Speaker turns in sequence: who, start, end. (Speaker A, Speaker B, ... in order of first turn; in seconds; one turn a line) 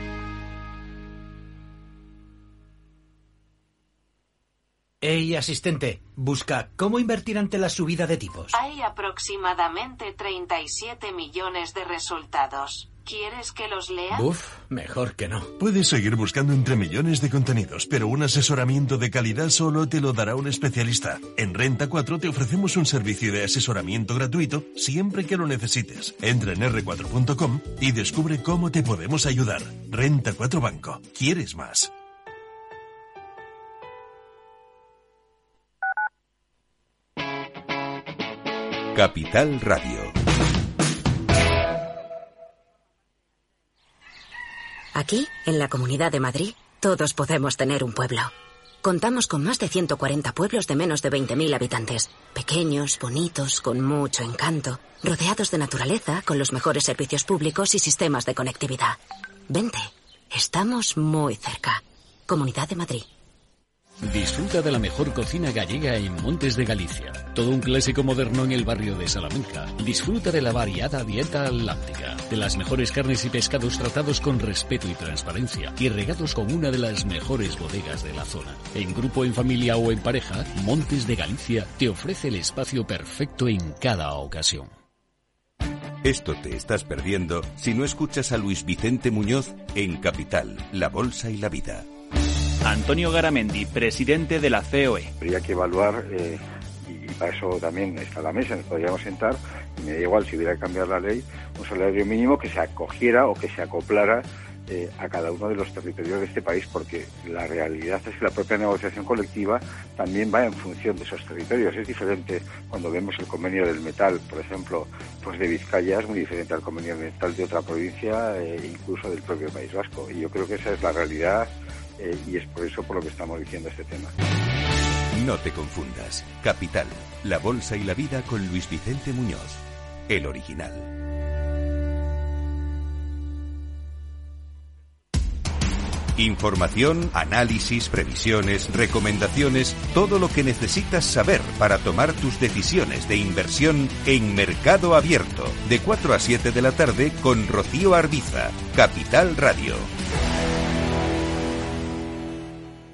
Speaker A: 5.0-8.6
Speaker B: 8.5-14.3
Speaker A: 14.1-15.5
Speaker C: 15.6-31.9
Speaker D: 38.9-40.1
Speaker E: 45.0-48.3
Speaker E: 48.8-63.1
Speaker F: 64.0-84.7
Speaker D: 86.0-91.9
Speaker G: 92.6-95.1
Speaker H: 95.2-124.1
Speaker D: 125.1-130.9
Speaker D: 136.2-149.9